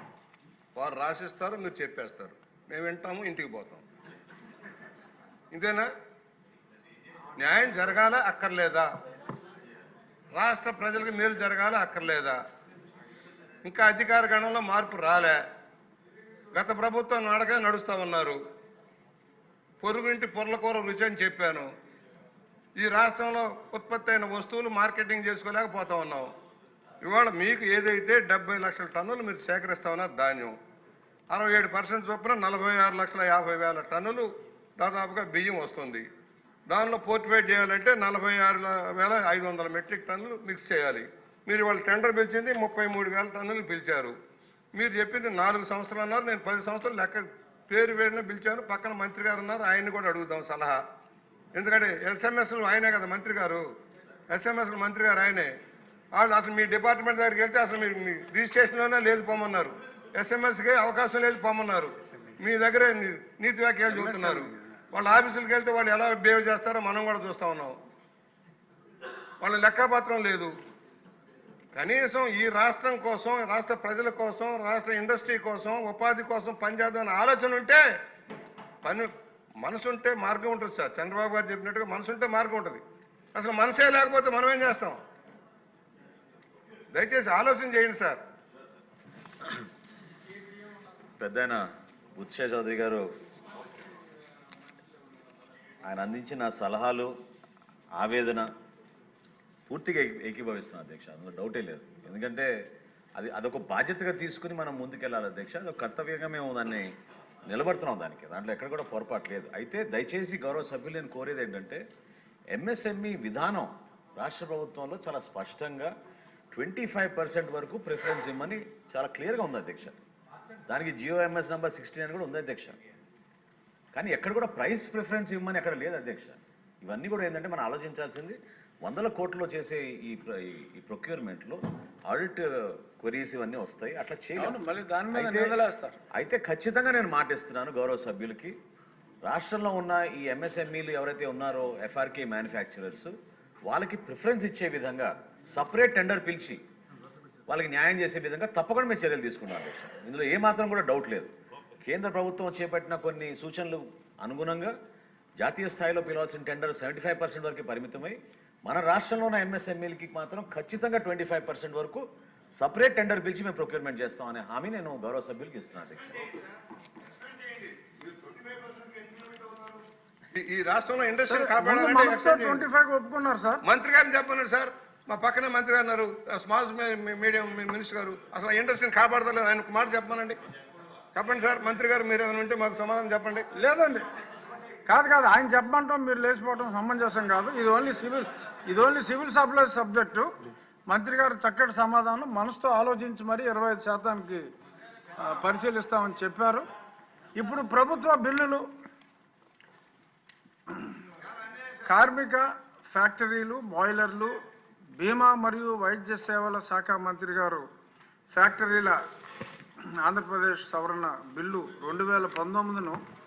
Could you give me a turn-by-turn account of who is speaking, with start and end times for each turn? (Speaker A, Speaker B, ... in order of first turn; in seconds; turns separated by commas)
Speaker A: 0.7-3.8, Speaker A: 5.5-5.9, Speaker A: 7.4-8.9, Speaker A: 10.3-12.4, Speaker A: 13.6-15.4, Speaker A: 16.5-18.4, Speaker A: 19.8-21.7, Speaker A: 22.8-26.3, Speaker A: 27.0-30.6, Speaker A: 31.3-36.1, Speaker A: 36.7-44.1, Speaker A: 44.7-50.8, Speaker A: 51.5-53.6, Speaker A: 54.3-55.5, Speaker A: 56.1-67.8, Speaker B: 63.9-64.6, Speaker A: 69.4-70.5, Speaker A: 71.8-77.8, Speaker A: 78.8-79.1, Speaker A: 79.6-82.8, Speaker A: 83.3-85.0, Speaker A: 86.9-88.2, Speaker C: 91.2-93.1, Speaker C: 95.8-97.1, Speaker C: 98.0-98.5, Speaker C: 99.7-102.5, Speaker C: 103.2-106.9, Speaker C: 107.5-111.8, Speaker C: 112.5-115.9, Speaker C: 116.5-120.0, Speaker C: 120.7-122.8, Speaker C: 123.9-134.6, Speaker B: 134.3-136.0, Speaker C: 135.1-135.5, Speaker C: 136.1-138.6, Speaker C: 139.2-143.1, Speaker C: 143.7-146.6, Speaker C: 147.5-151.3, Speaker C: 151.8-154.7, Speaker C: 155.4-162.0, Speaker C: 162.6-166.3, Speaker A: 167.3-169.8, Speaker A: 170.3-172.6, Speaker B: 171.3-173.6, Speaker A: 173.6-180.4, Speaker A: 181.1-183.4, Speaker B: 183.6-184.0, Speaker B: 184.8-190.3, Speaker B: 190.9-194.4, Speaker B: 195.2-196.7, Speaker B: 197.3-198.6, Speaker B: 200.7-200.9, Speaker B: 201.8-204.3, Speaker B: 205.0-207.7, Speaker B: 208.3-209.0, Speaker B: 210.0-213.0